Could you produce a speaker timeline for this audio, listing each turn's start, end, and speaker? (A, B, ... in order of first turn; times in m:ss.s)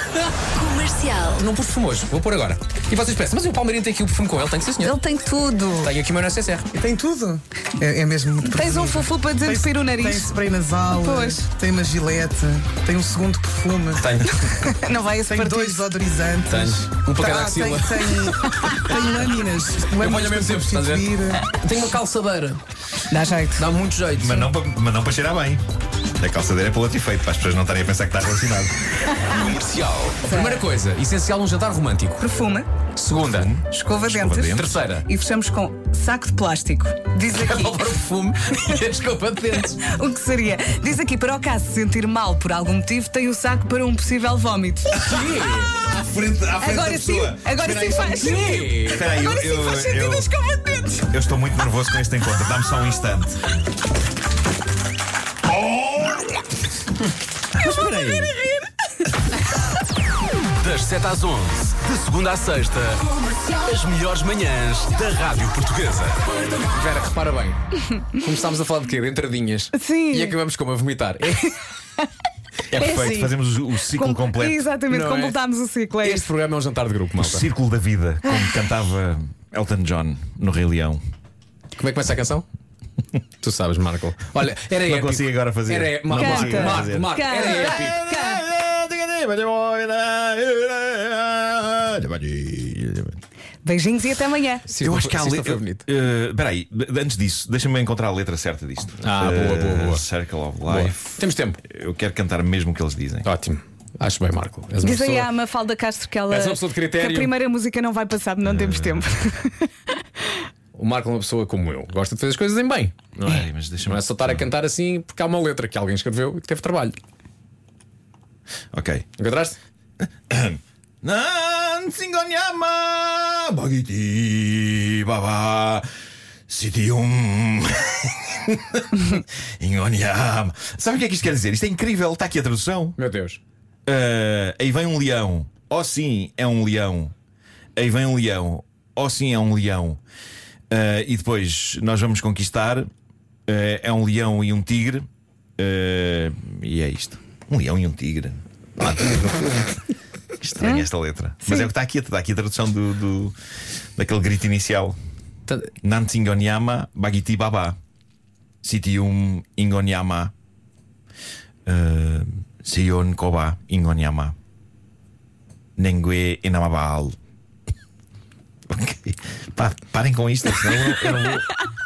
0:00.6-0:01.3 A
0:01.2-0:05.0 B
0:04.8-0:05.9 A
0:05.8-0:06.7 B
0:06.7-0:14.1 C
0:08.5-0:10.4 A
0:10.9-0:11.5 A
0:14.0-0:14.5 B
0:14.5-0:15.9 A
0:15.3-0:21.5 C
0:16.5-0:19.2 B
0:19.9-0:22.6 B
0:23.1-0:23.7 A
0:23.6-0:24.5 B
0:24.1-0:25.6 D
0:26.2-0:28.7 D
0:29.3-0:32.2 B
0:30.2-0:30.6 A
0:32.2-0:32.7 A
0:33.0-0:33.5 B
0:33.2-0:34.8 D
0:33.7-0:38.0 A
0:34.5-0:35.1 B
0:37.3-0:39.8 B
0:39.8-0:45.0 A
0:45.0-0:45.8 B
0:45.0-0:50.3 D
0:46.6-0:51.0 A
0:48.1-0:49.1 B
0:51.0-0:53.4 D
0:55.4-0:56.5 D
0:57.6-0:58.3 D
1:00.6-1:06.2 E
1:06.5-1:11.6 B
1:09.7-1:10.4 A
1:12.7-1:14.7 D
1:12.8-1:13.4 A
1:13.9-1:16.3 A
1:14.9-1:15.4 B
1:16.0-1:17.5 B
1:17.2-1:21.0 D
1:18.2-1:18.6 A
1:21.8-1:22.4 B
1:23.4-1:28.0 B
1:24.8-1:33.2 D
1:26.2-1:28.4 A
1:33.6-1:34.7 A
1:34.7-1:35.8 B
1:34.8-1:43.3 D
1:39.0-1:40.0 B
1:40.7-1:41.6 B
1:43.2-1:45.3 B
1:44.8-1:50.4 A
1:46.3-1:47.3 B
1:48.4-1:49.0 D
1:50.8-1:57.0 B
1:53.2-1:54.5 D
1:58.7-1:59.1 D
1:59.2-1:59.6 B
2:00.3-2:05.8 D
2:06.5-2:13.0 D
2:13.0-2:13.4 B
2:13.9-2:17.1 D
2:17.8-2:20.0 D
2:20.7-2:22.9 D
2:23.5-2:25.1 D
2:25.6-2:29.7 D
2:30.4-2:33.4 D
2:30.6-2:30.9 A
2:31.4-2:31.7 A
2:34.0-2:35.0 D
2:35.8-2:37.8 D
2:38.6-2:40.3 D
2:41.7-2:44.4 D
2:45.8-2:47.2 D
2:48.7-2:51.6 D
2:50.9-2:51.3 A